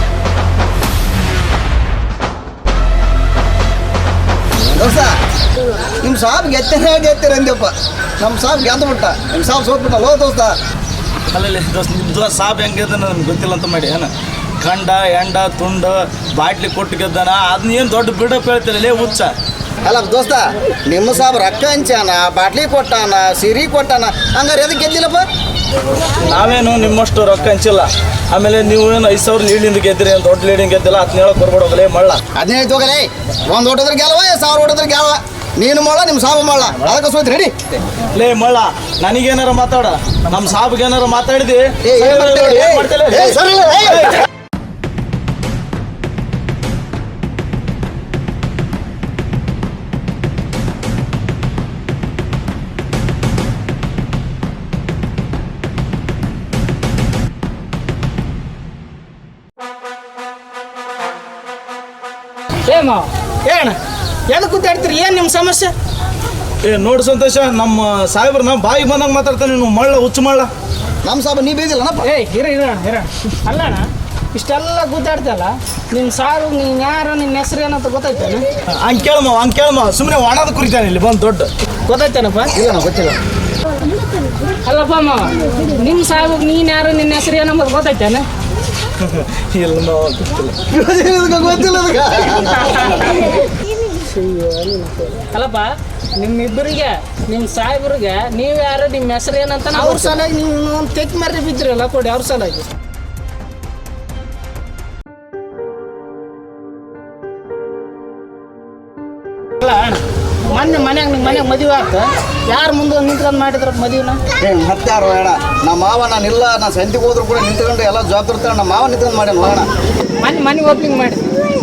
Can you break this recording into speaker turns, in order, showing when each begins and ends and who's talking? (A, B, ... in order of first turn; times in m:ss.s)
0:04.7-0:05.1 A
0:06.0-0:10.6 A
0:11.3-0:14.1 B
0:14.6-0:19.3 B
0:19.8-0:25.3 A
0:26.2-0:32.2 B
0:32.4-0:37.5 A
0:38.2-0:43.4 B
0:41.8-0:44.1 A
0:43.9-0:44.1 B
1:02.7-1:03.8 C
1:04.3-1:05.7 C
1:06.6-1:10.5 B
1:11.0-1:12.1 A
1:12.0-1:18.4 C
1:18.8-1:21.5 B
1:21.9-1:22.5 C
1:22.5-1:23.2 A
1:24.7-1:28.2 C
1:29.0-1:30.6 B
1:30.7-1:32.7 A
1:32.5-1:33.4 C
1:34.0-1:42.7 C
1:39.7-1:40.2 A
1:49.6-1:50.0 C
1:50.5-1:54.2 C
1:54.4-1:59.7 A
2:00.2-2:01.3 C